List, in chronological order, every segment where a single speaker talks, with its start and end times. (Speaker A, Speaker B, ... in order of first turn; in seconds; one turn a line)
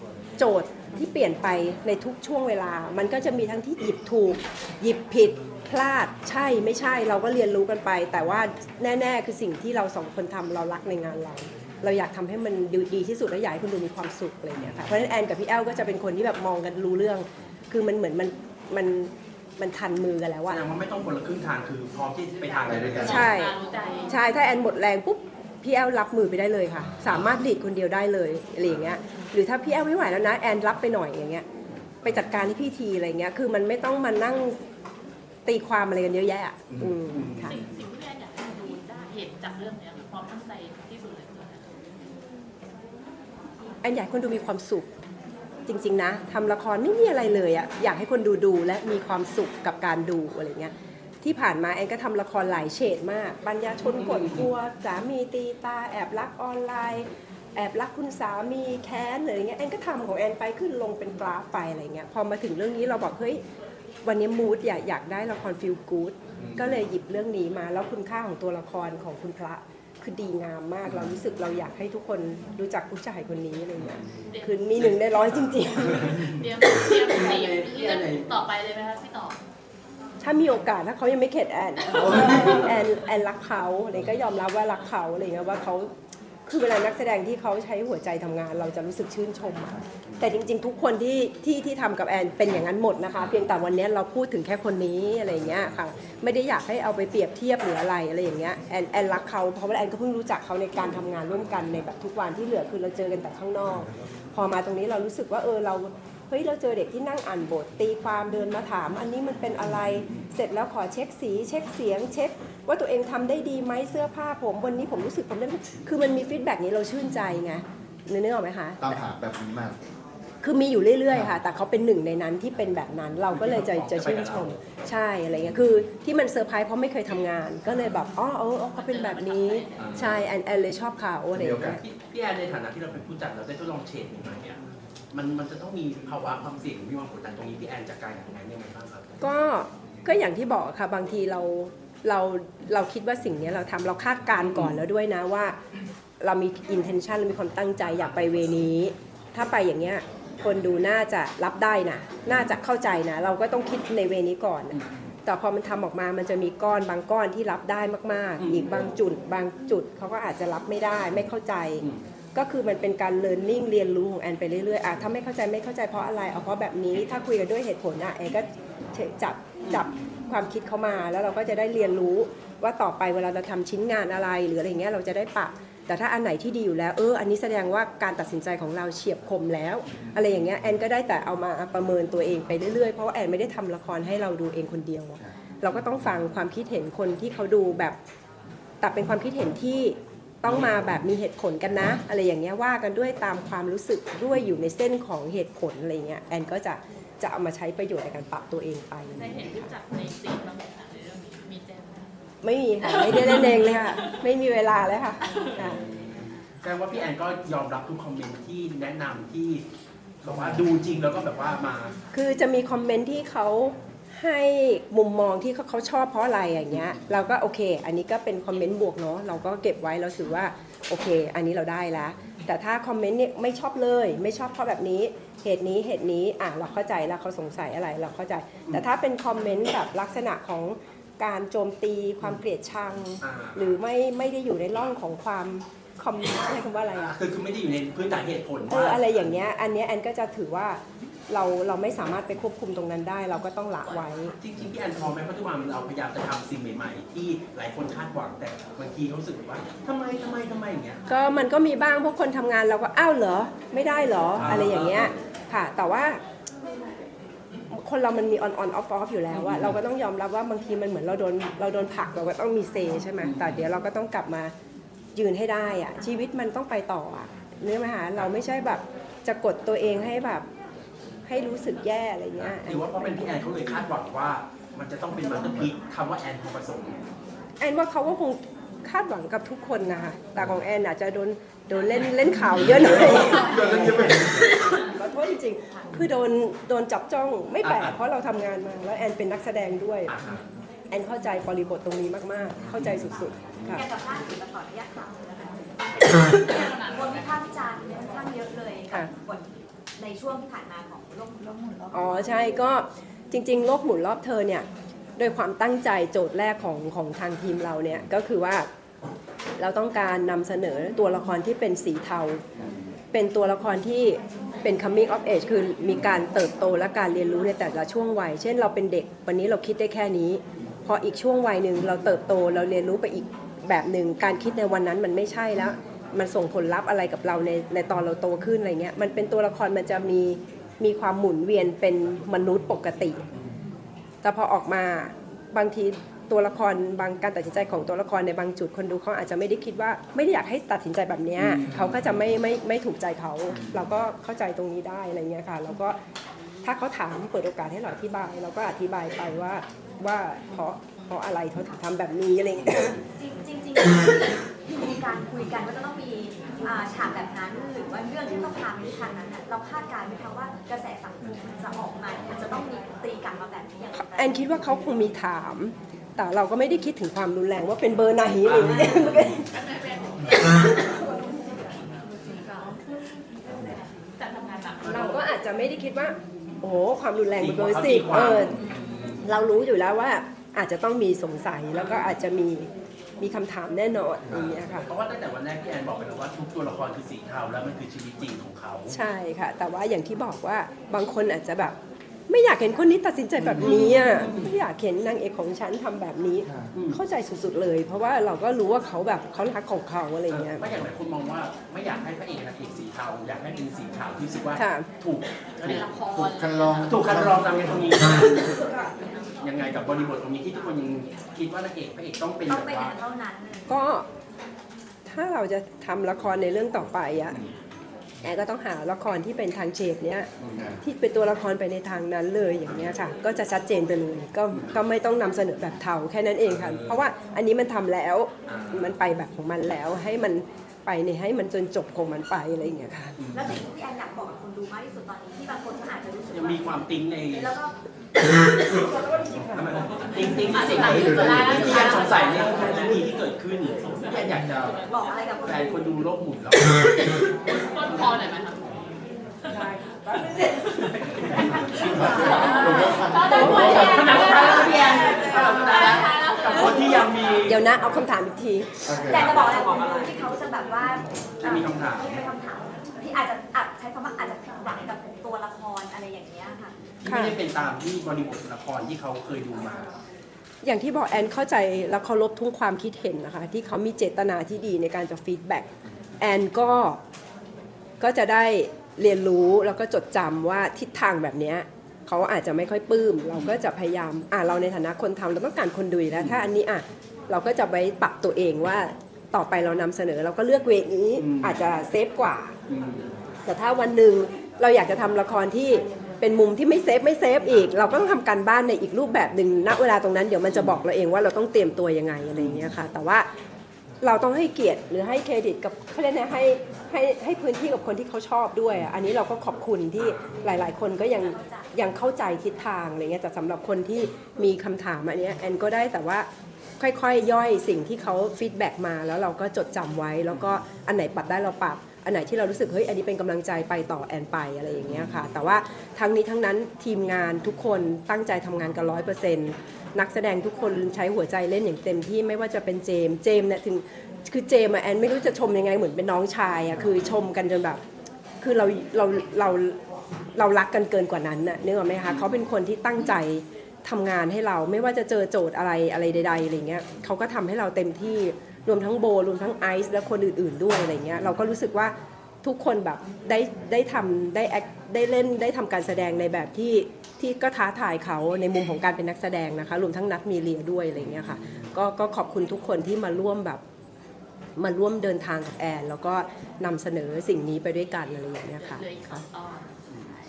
Speaker A: 0.4-20.6
Speaker B: 20.5-24.0
Speaker C: 22.6-23.3
Speaker D: 22.7-24.1
Speaker A: 23.0-23.5
Speaker A: 24.1-31.4
Speaker A: 32.0-34.6
Speaker A: 35.5-37.6
Speaker B: 37.1-41.7
Speaker D: 37.3-41.2
Speaker A: 43.8-44.9
Speaker A: 45.7-63.4
Speaker A: 64.0-76.2
Speaker B: 66.4-66.7
Speaker D: 74.3-75.6
Speaker B: 75.4-78.5
Speaker D: 76.2-79.3
Speaker A: 80.2-85.9
Speaker A: 86.5-119.0
Speaker C: 118.8-119.8
Speaker A: 120.4-131.8
Speaker B: 123.3-124.6
Speaker B: 128.8-130.1
Speaker D: 128.9-130.1
Speaker C: 131.3-131.8
Speaker B: 131.8-134.6
Speaker B: 135.1-139.1
Speaker A: 139.2-145.6
Speaker A: 146.2-188.0
Speaker B: 158.4-158.7
Speaker A: 188.8-199.7
Speaker D: 199.2-201.9
Speaker B: 200.2-202.1
Speaker A: 202.4-205.8
Speaker B: 202.8-203.8
Speaker D: 205.3-206.0
Speaker B: 205.6-209.6
Speaker D: 210.2-210.5
Speaker B: 210.3-211.9
Speaker A: 212.1-237.1
Speaker B: 233.2-233.6
Speaker B: 237.0-239.0
Speaker A: 238.7-244.3
Speaker B: 243.9-251.0
Speaker A: 251.1-256.2
Speaker B: 254.4-255.1
Speaker D: 254.4-254.9
Speaker A: 257.7-264.5
Speaker A: 265.1-270.4
Speaker A: 271.3-273.2
Speaker B: 272.6-277.0
Speaker D: 275.2-275.8
Speaker A: 277.6-290.1
Speaker C: 282.6-284.6
Speaker B: 282.9-284.0
Speaker B: 287.6-287.9
Speaker B: 290.1-290.4
Speaker A: 290.9-293.9
Speaker E: 293.6-302.4
Speaker D: 296.3-297.3
Speaker A: 301.9-308.7
Speaker A: 309.6-312.4
Speaker A: 313.1-333.2
Speaker A: 334.2-346.0
Speaker B: 341.4-342.0
Speaker A: 346.6-353.0
Speaker E: 353.1-364.4
Speaker A: 363.9-369.5
Speaker B: 368.5-369.4
Speaker E: 368.5-369.1
Speaker D: 369.5-370.8
Speaker B: 370.2-371.1
Speaker D: 374.2-375.2
Speaker B: 374.4-375.2
Speaker A: 374.8-378.6
Speaker B: 377.4-378.8
Speaker D: 377.7-379.2
Speaker A: 379.2-382.7
Speaker A: 383.2-384.9
Speaker B: 384.7-389.0
Speaker A: 388.9-391.8
Speaker A: 392.3-400.6
Speaker B: 393.6-394.3
Speaker C: 396.4-396.7
Speaker B: 400.3-408.6
Speaker A: 404.6-404.9
Speaker C: 405.6-408.0
Speaker D: 405.7-406.6
Speaker D: 407.2-409.4
Speaker B: 409.4-412.9
Speaker E: 412.4-413.8
Speaker A: 413.7-414.1
Speaker A: 415.1-417.4
Speaker A: 418.2-420.3
Speaker C: 420.5-420.8
Speaker A: 420.8-433.2
Speaker B: 428.5-428.8
Speaker E: 433.3-437.7
Speaker B: 436.3-437.4
Speaker A: 438.7-439.8
Speaker D: 439.4-444.8
Speaker B: 439.6-444.8
Speaker E: 440.0-443.1
Speaker C: 440.5-441.9
Speaker E: 444.7-445.8
Speaker B: 445.4-448.5
Speaker D: 446.8-448.6
Speaker C: 451.3-454.0
Speaker B: 451.5-457.5
Speaker D: 451.7-457.6
Speaker E: 451.8-455.7
Speaker A: 453.3-454.2
Speaker A: 457.4-458.9
Speaker C: 458.8-459.4
Speaker E: 458.9-466.7
Speaker B: 461.4-462.0
Speaker D: 461.5-462.1
Speaker A: 467.1-467.4
Speaker B: 467.1-469.9
Speaker A: 470.6-475.7
Speaker A: 476.2-477.0
Speaker A: 478.0-492.5
Speaker B: 491.1-491.7
Speaker B: 492.7-493.1
Speaker A: 493.4-503.3
Speaker A: 504.0-516.3
Speaker B: 510.0-510.4
Speaker E: 511.2-511.7
Speaker A: 516.8-537.8
Speaker B: 524.9-525.1
Speaker A: 538.4-539.8
Speaker A: 540.4-563.6
Speaker A: 564.6-569.2
Speaker D: 568.8-569.7